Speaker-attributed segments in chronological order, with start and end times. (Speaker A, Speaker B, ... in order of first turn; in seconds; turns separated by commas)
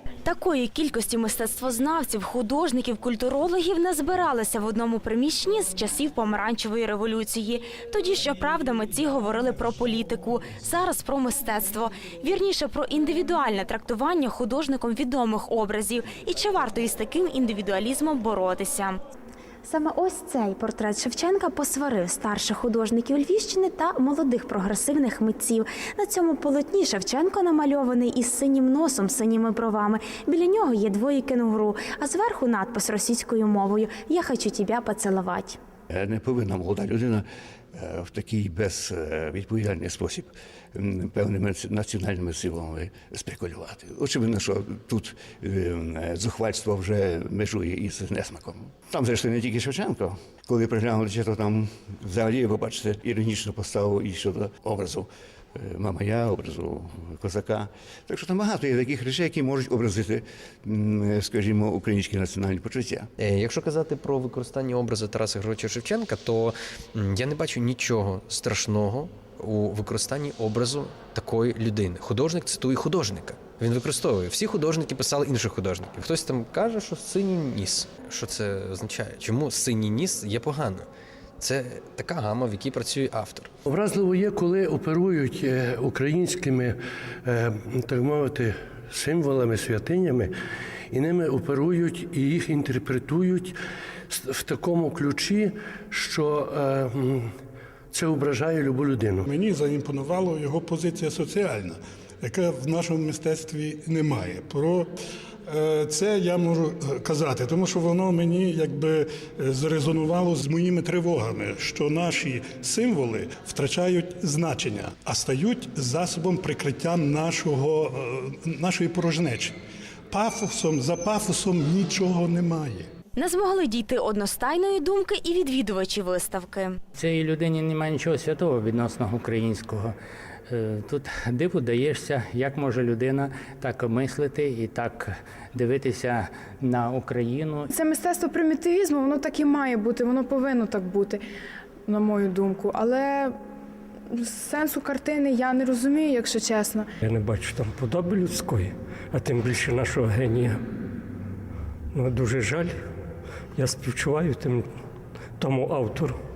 Speaker A: 0.3-19.0, Speaker A: 19.6-35.6, Speaker B: 35.9-63.1, Speaker C: 63.2-80.9, Speaker C: 81.4-83.5, Speaker D: 83.7-90.3, Speaker D: 90.9-93.5, Speaker D: 94.1-97.3, Speaker D: 97.9-99.2, Speaker E: 99.2-104.9, Speaker E: 105.5-119.6, Speaker E: 120.1-122.9, Speaker A: 123.2-126.8, Speaker F: 126.9-129.9, Speaker F: 130.5-137.7, Speaker G: 137.7-141.2, Speaker G: 141.9-143.3, Speaker G: 144.1-146.9, Speaker H: 147.0-150.6, Speaker H: 151.9-152.8, Speaker H: 153.6-154.7, Speaker H: 155.4-156.2